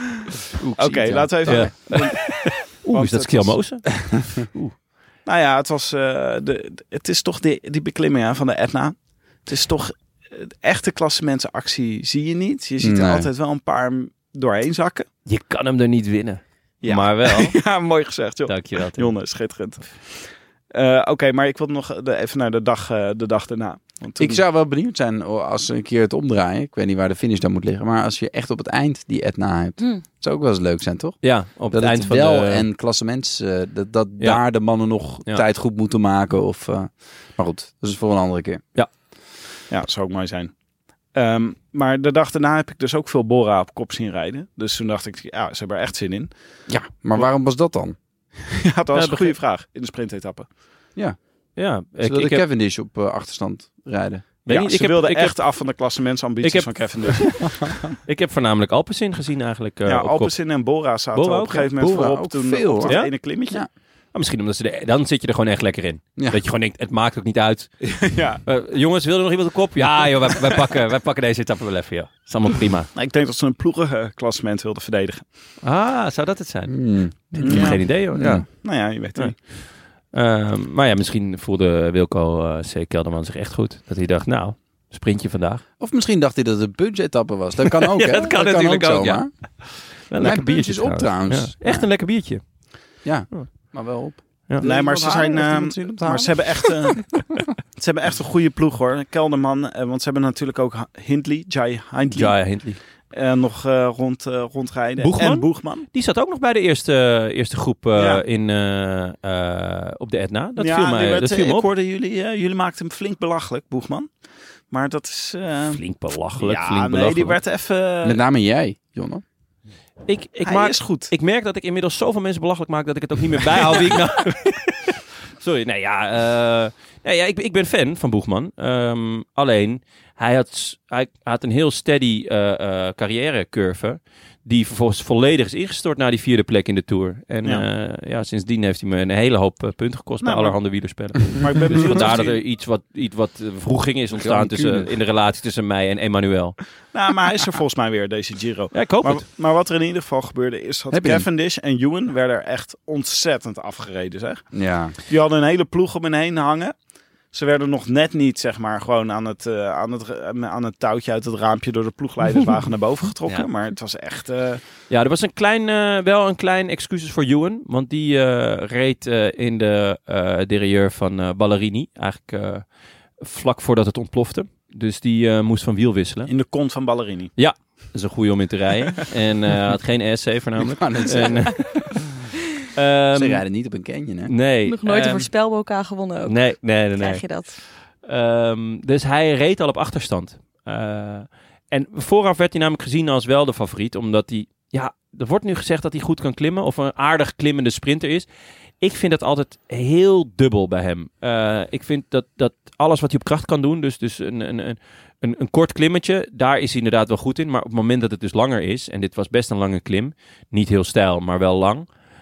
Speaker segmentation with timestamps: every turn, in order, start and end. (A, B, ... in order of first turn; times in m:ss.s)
0:00.7-0:02.1 A
0:00.7-0:04.8 B
0:00.8-0:03.8 C
0:05.2-0:15.1 C
0:12.8-0:13.3 A
0:15.2-0:17.6 B
0:16.8-0:24.4 C
0:18.4-0:19.1 B
0:24.2-0:38.6 A
0:31.2-0:32.7 B
0:39.7-0:40.5 C
0:41.1-0:46.3 C
0:46.7-0:48.0 A
0:48.5-0:50.5 C
0:48.9-0:49.3 B
0:51.6-0:52.4 B
0:52.0-0:54.3 A
0:54.4-0:55.4 B
0:54.5-0:57.7 C
0:56.4-1:00.3 B
0:59.8-1:03.6 C
1:01.1-1:01.7 B
1:01.7-1:03.7 A
1:02.8-1:03.1 B
1:04.1-1:12.9 B
1:07.8-1:08.4 C
1:12.9-1:15.2 C
1:15.6-1:18.5 B
1:16.7-1:18.4 A
1:17.4-1:19.4 C
1:20.1-1:25.6 B
1:25.8-1:31.9 A
1:27.8-1:32.7 B
1:33.0-1:36.9 A
1:34.6-1:45.8 C
1:42.1-1:42.8 B
1:45.0-1:51.7 B
1:48.0-1:48.2 C
1:50.6-1:54.1 C
1:54.7-1:55.8 C
1:55.7-1:57.4 B
1:56.4-1:58.2 C
1:58.0-1:59.2 A
2:00.0-2:26.6 B
2:00.4-2:01.1 C
2:20.2-2:22.4 C
2:24.2-2:24.9 A
2:26.9-2:34.5 C
2:28.7-2:29.2 B
2:30.9-2:31.2 A
2:34.5-2:34.9 A
2:35.1-2:36.7 C
2:37.3-2:44.6 C
2:44.9-2:56.3 B
2:56.3-2:57.3 C
2:57.4-3:01.9 B
3:00.6-3:01.9 A
3:02.7-3:03.4 B
3:03.1-3:04.3 A
3:04.2-3:05.3 B
3:04.6-3:07.6 D
3:06.2-3:07.3 B
3:08.0-3:18.3 B
3:18.8-3:31.9 B